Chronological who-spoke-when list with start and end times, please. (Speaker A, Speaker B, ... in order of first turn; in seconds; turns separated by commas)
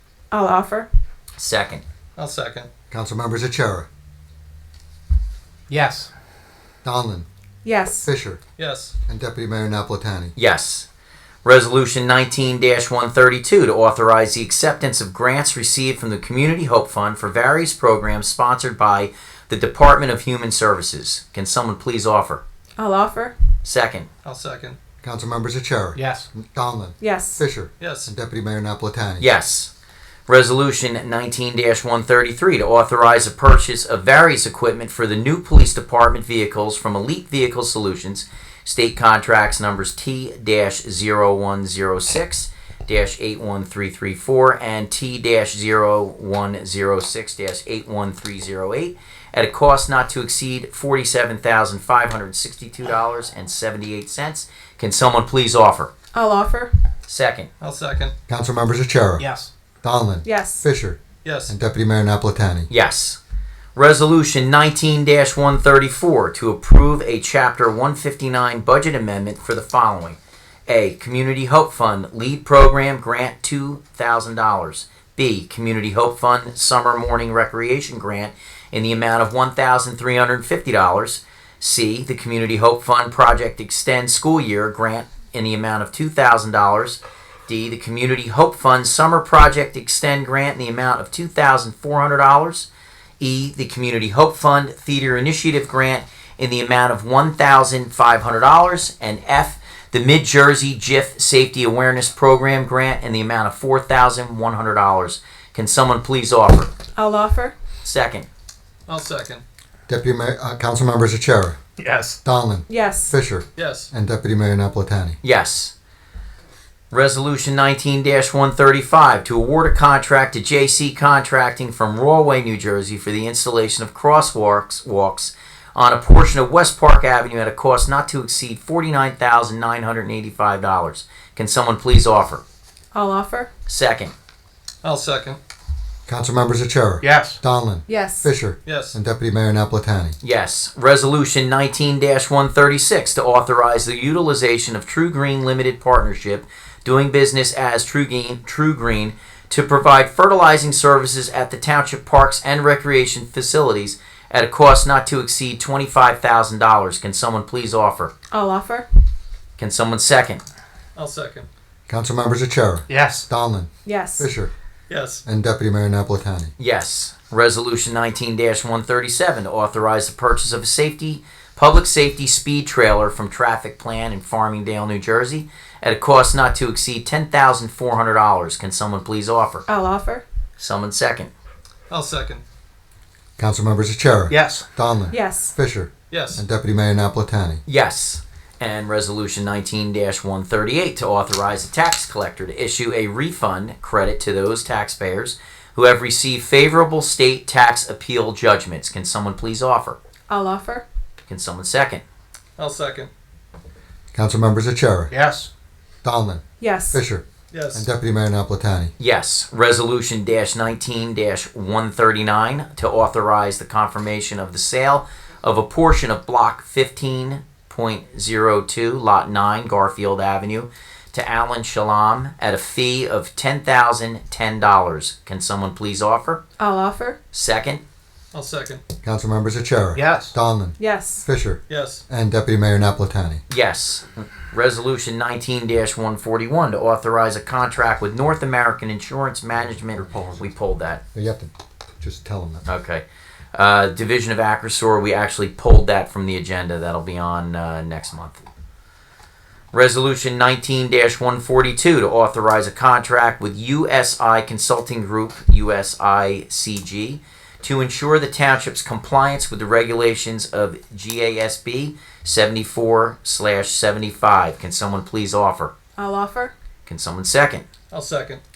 Speaker A: 0.3-0.9, Speaker B: 1.4-1.8, Speaker C: 2.2-2.7, Speaker D: 2.9-3.9, Speaker E: 5.7-6.1, Speaker D: 6.8-7.3, Speaker A: 7.6-8.1, Speaker D: 8.1-8.4, Speaker C: 8.6-8.9, Speaker D: 9.1-10.3, Speaker B: 10.4-10.9, Speaker B: 11.4-22.4, Speaker A: 22.8-23.3, Speaker B: 23.6-24.1, Speaker C: 24.2-24.8, Speaker D: 25.0-29.3, Speaker E: 26.0-26.3, Speaker A: 27.0-27.4, Speaker C: 27.8-28.1, Speaker B: 29.2-29.7, Speaker B: 30.3-55.9, Speaker A: 56.1-56.7, Speaker B: 57.1-57.5, Speaker C: 57.6-58.1, Speaker D: 58.3-59.2, Speaker E: 59.2-59.5, Speaker D: 59.8-61.0, Speaker A: 60.2-60.7, Speaker C: 61.2-61.5, Speaker D: 61.5-62.7, Speaker B: 62.7-63.2, Speaker B: 63.8-92.7, Speaker B: 93.2-106.7, Speaker A: 107.0-107.5, Speaker B: 107.8-108.3, Speaker C: 108.9-109.4, Speaker D: 109.9-111.6, Speaker E: 111.8-112.2, Speaker D: 112.2-115.2, Speaker A: 112.7-113.2, Speaker C: 113.6-113.9, Speaker B: 115.2-115.7, Speaker B: 116.9-132.4, Speaker A: 132.9-133.5, Speaker B: 133.7-134.1, Speaker C: 134.8-135.4, Speaker D: 136.1-140.2, Speaker E: 137.0-137.4, Speaker A: 137.9-138.3, Speaker C: 138.7-139.0, Speaker B: 140.2-158.1, Speaker A: 158.3-158.9, Speaker B: 159.6-160.4, Speaker C: 161.0-161.5, Speaker D: 161.9-164.5, Speaker E: 162.9-163.2, Speaker A: 163.9-164.3, Speaker C: 164.9-165.2, Speaker D: 165.3-166.5, Speaker B: 166.6-179.7, Speaker A: 179.7-180.2, Speaker B: 180.6-181.3, Speaker C: 181.9-182.4, Speaker D: 183.4-187.6, Speaker E: 184.3-184.7, Speaker A: 185.1-185.5, Speaker C: 186.1-186.4, Speaker B: 187.7-200.0, Speaker A: 200.3-200.8, Speaker B: 201.2-202.0, Speaker C: 202.6-203.1, Speaker D: 204.1-205.1, Speaker E: 205.1-205.5, Speaker D: 206.0-207.2, Speaker A: 206.6-207.0, Speaker C: 207.5-207.8, Speaker D: 207.8-208.9, Speaker B: 209.0-226.4, Speaker A: 226.6-227.2, Speaker B: 227.3-227.8, Speaker C: 228.3-228.8, Speaker D: 229.0-233.4, Speaker E: 230.0-230.3, Speaker A: 230.8-231.3, Speaker C: 231.7-232.0, Speaker B: 233.5-241.0, Speaker D: 240.0-240.5, Speaker D: 241.1-242.7, Speaker B: 242.7-248.4, Speaker B: 249.7-265.7, Speaker A: 266.0-266.5, Speaker B: 266.9-267.6, Speaker C: 267.9-268.4